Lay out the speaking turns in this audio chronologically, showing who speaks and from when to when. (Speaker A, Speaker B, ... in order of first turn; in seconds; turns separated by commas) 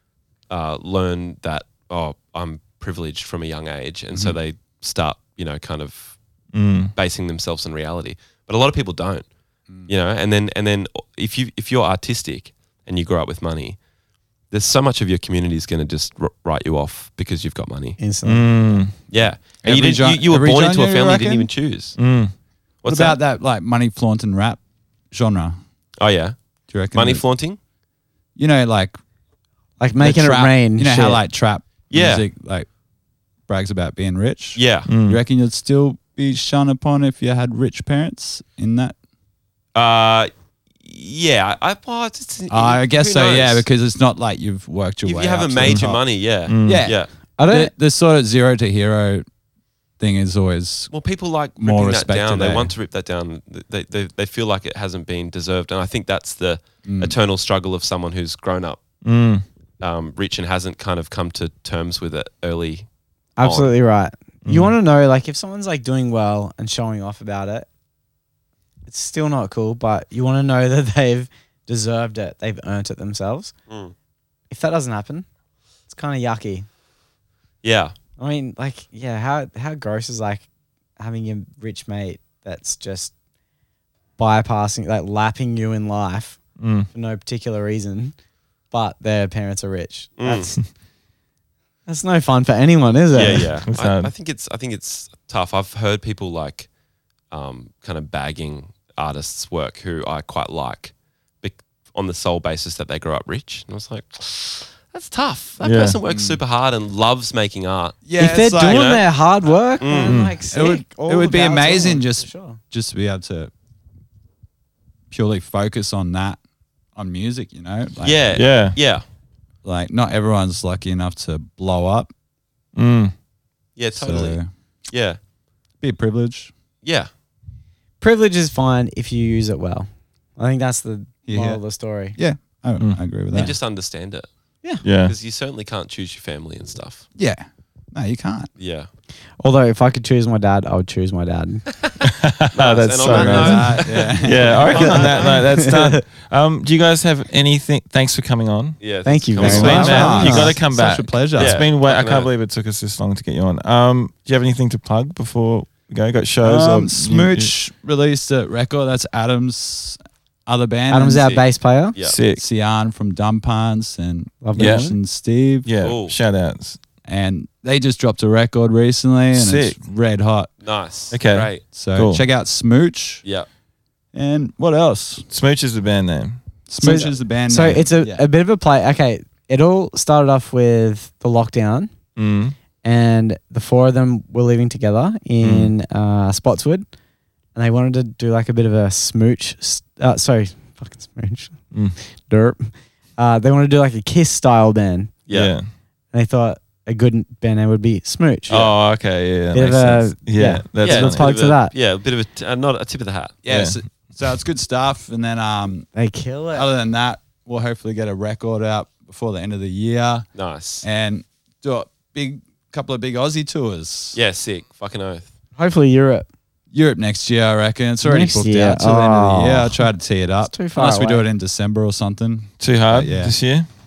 Speaker A: 0.5-6.2, Speaker B: 6.5-6.9, Speaker A: 6.9-13.8, Speaker A: 14.5-18.0, Speaker C: 18.0-18.9, Speaker B: 18.2-18.9, Speaker A: 19.1-22.0, Speaker D: 19.6-21.5, Speaker B: 22.0-22.3, Speaker A: 22.8-23.2, Speaker D: 22.9-25.6, Speaker A: 26.0-26.4, Speaker D: 26.7-27.2, Speaker A: 26.9-27.6, Speaker D: 28.4-28.9, Speaker C: 29.8-31.2, Speaker D: 30.0-32.7, Speaker A: 31.9-32.2, Speaker D: 33.5-38.9, Speaker A: 34.5-34.9, Speaker B: 34.9-35.2, Speaker A: 39.7-40.3, Speaker A: 40.8-43.6, Speaker D: 42.5-46.0, Speaker A: 45.0-47.1, Speaker B: 46.5-46.9, Speaker D: 46.6-49.2, Speaker C: 47.4-47.7, Speaker D: 50.0-50.9, Speaker A: 50.9-58.8, Speaker D: 51.6-52.7, Speaker D: 56.8-57.1, Speaker B: 59.0-59.4, Speaker A: 59.8-62.9, Speaker C: 63.4-67.7, Speaker A: 63.4-63.7, Speaker B: 64.4-64.8, Speaker C: 68.9-73.5, Speaker A: 73.7-73.9, Speaker C: 74.5-75.3, Speaker C: 75.9-76.7, Speaker A: 77.6-77.9, Speaker C: 78.2-80.5, Speaker C: 81.0-83.1, Speaker C: 84.2-88.2, Speaker B: 86.6-86.9, Speaker C: 88.7-90.6, Speaker A: 90.2-90.5, Speaker C: 91.8-93.5, Speaker A: 93.1-96.7, Speaker B: 93.7-94.1, Speaker A: 97.3-108.0, Speaker B: 105.6-106.0, Speaker D: 106.1-106.4, Speaker D: 108.0-108.9, Speaker C: 108.2-112.6, Speaker A: 108.6-109.0, Speaker A: 109.8-110.2, Speaker B: 110.0-110.3, Speaker D: 110.5-113.5, Speaker D: 115.1-116.4, Speaker D: 116.9-118.4, Speaker A: 118.0-119.0, Speaker B: 118.3-118.8, Speaker D: 119.6-122.1, Speaker B: 122.8-123.1, Speaker A: 123.8-125.2, Speaker D: 123.9-124.5, Speaker D: 125.8-126.5, Speaker A: 126.8-127.1, Speaker C: 128.0-132.2, Speaker D: 131.2-131.6, Speaker D: 132.1-133.5, Speaker A: 133.3-134.3, Speaker B: 134.8-135.1, Speaker A: 134.8-137.0, Speaker D: 137.1-138.5, Speaker A: 138.6-138.9, Speaker C: 139.4-141.7, Speaker B: 142.0-148.8, Speaker A: 142.5-145.4, Speaker D: 143.0-144.9, Speaker C: 144.8-146.0, Speaker A: 148.8-150.2, Speaker C: 149.1-150.6, Speaker B: 149.3-157.5, Speaker D: 149.4-151.6, Speaker A: 151.4-152.3, Speaker D: 156.4-161.3, Speaker C: 160.9-161.9, Speaker A: 161.2-162.2, Speaker B: 162.0-162.4, Speaker D: 162.4-165.7, Speaker C: 164.4-164.9, Speaker B: 164.5-164.9, Speaker B: 165.6-166.8, Speaker A: 165.8-166.1, Speaker D: 167.0-170.5, Speaker B: 169.3-169.8, Speaker A: 170.6-171.6, Speaker B: 171.1-172.2, Speaker D: 171.7-173.2, Speaker D: 174.1-175.2, Speaker B: 175.3-176.4, Speaker D: 176.7-178.3, Speaker C: 176.8-181.9, Speaker B: 182.2-182.5, Speaker C: 182.8-186.9, Speaker B: 185.4-185.7, Speaker C: 187.5-195.2, Speaker B: 191.7-192.0, Speaker A: 195.3-195.5, Speaker B: 195.3-195.7, Speaker C: 196.1-198.5, Speaker A: 198.5-198.8, Speaker B: 198.5-201.3, Speaker C: 199.5-201.7, Speaker A: 200.8-203.3, Speaker D: 203.4-205.9, Speaker B: 203.5-203.8, Speaker C: 205.9-206.7, Speaker D: 206.5-210.2, Speaker A: 210.3-210.8, Speaker D: 210.8-214.2, Speaker A: 214.1-215.3, Speaker C: 215.6-216.2, Speaker D: 216.7-223.3, Speaker C: 218.0-219.8, Speaker C: 220.5-221.2, Speaker B: 222.6-223.7